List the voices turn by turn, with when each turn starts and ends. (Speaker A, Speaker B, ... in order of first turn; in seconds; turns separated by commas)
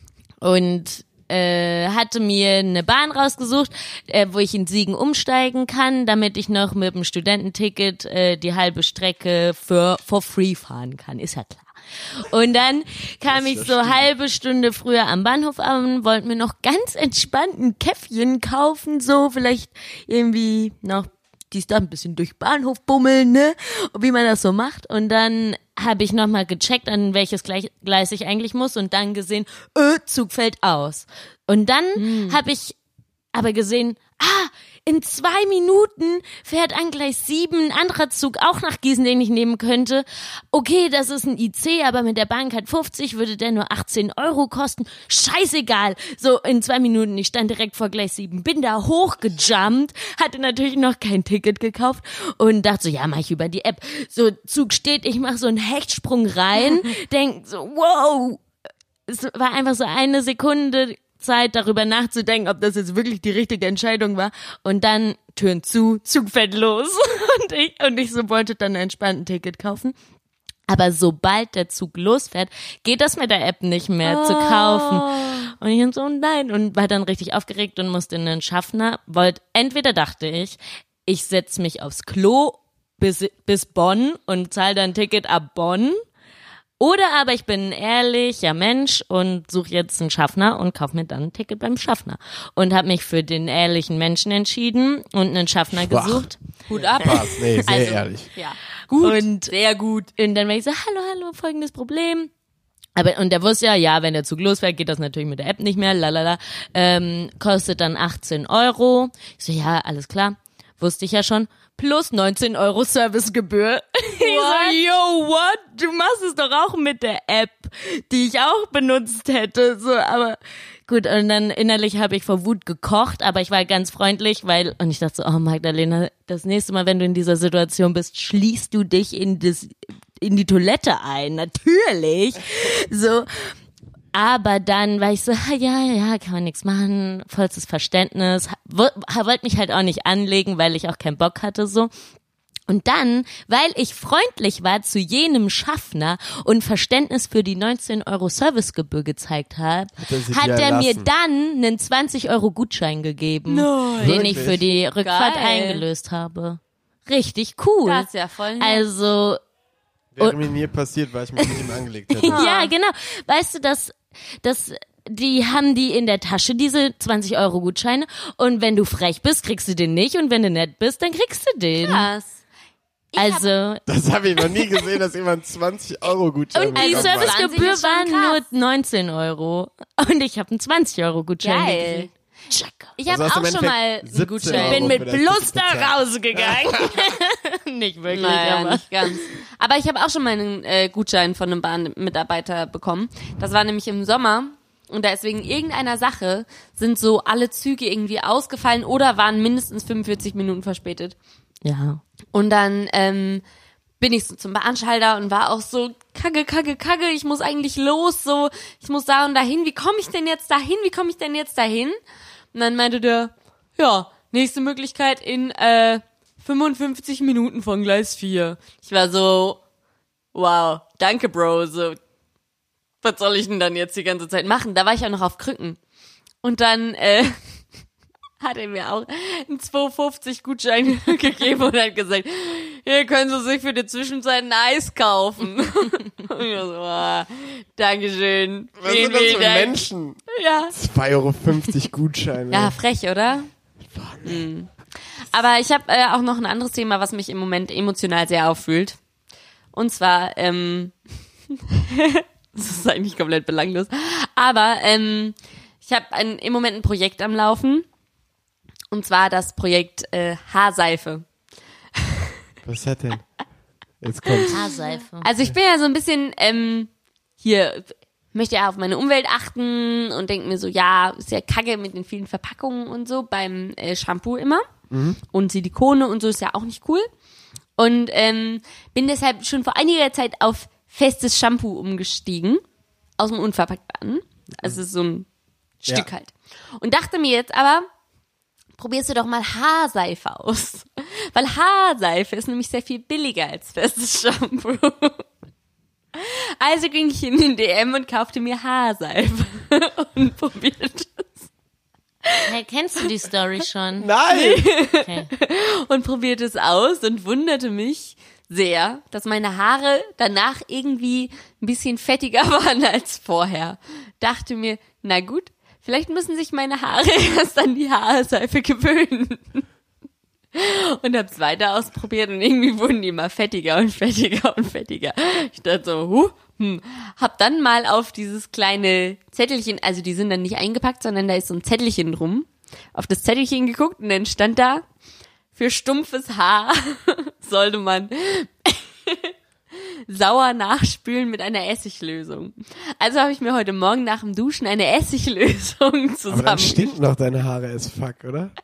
Speaker A: 0.4-32.8, Speaker B: 13.3-14.1, Speaker C: 32.0-32.4, Speaker A: 33.3-58.4, Speaker A: 59.1-70.0, Speaker A: 70.7-86.0, Speaker C: 74.0-75.5, Speaker A: 86.8-96.4, Speaker B: 95.7-98.3, Speaker C: 96.7-100.1, Speaker A: 97.1-97.5, Speaker A: 99.0-99.5, Speaker A: 100.1-102.3, Speaker A: 103.0-133.6, Speaker C: 114.2-114.8, Speaker A: 134.1-141.9, Speaker A: 142.7-158.1, Speaker B: 150.0-151.1, Speaker C: 153.5-155.8, Speaker B: 154.0-154.6, Speaker C: 157.8-158.8, Speaker A: 158.6-159.4, Speaker B: 160.2-162.4, Speaker A: 160.2-160.5, Speaker A: 162.2-172.1, Speaker C: 162.3-162.7, Speaker C: 171.8-172.4, Speaker C: 173.1-173.5, Speaker A: 173.2-173.8, Speaker B: 173.9-177.4, Speaker C: 176.6-178.4, Speaker A: 176.6-182.9, Speaker C: 181.4-182.1, Speaker C: 183.0-185.1, Speaker B: 183.1-187.0, Speaker A: 184.5-189.2, Speaker C: 188.1-201.2, Speaker A: 201.6-202.0, Speaker C: 202.3-203.4, Speaker C: 204.0-212.0, Speaker C: 212.5-219.6, Speaker C: 220.3-222.0, Speaker C: 223.0-225.8, Speaker C: 226.4-227.4, Speaker C: 228.4-240.7, Speaker B: 238.8-242.8, Speaker C: 242.5-243.5, Speaker B: 243.9-244.4, Speaker C: 244.2-244.7, Speaker C: 245.2-249.0, Speaker C: 249.7-251.0, Speaker C: 251.7-257.9, Speaker C: 258.9-261.3, Speaker B: 262.6-263.3, Speaker B: 264.0-264.5, Speaker A: 264.5-265.3, Speaker C: 265.2-274.7, Speaker B: 274.9-275.2, Speaker C: 275.3-277.1, Speaker C: 277.8-282.6, Speaker C: 283.2-285.3, Speaker C: 285.8-287.9, Speaker C: 288.8-295.2, Speaker C: 296.1-301.5, Speaker A: 302.5-304.1, Speaker B: 304.0-304.6, Speaker C: 304.3-319.6, Speaker A: 305.0-305.3, Speaker C: 320.5-334.9, Speaker C: 335.6-339.3, Speaker C: 340.1-347.0, Speaker B: 346.3-348.5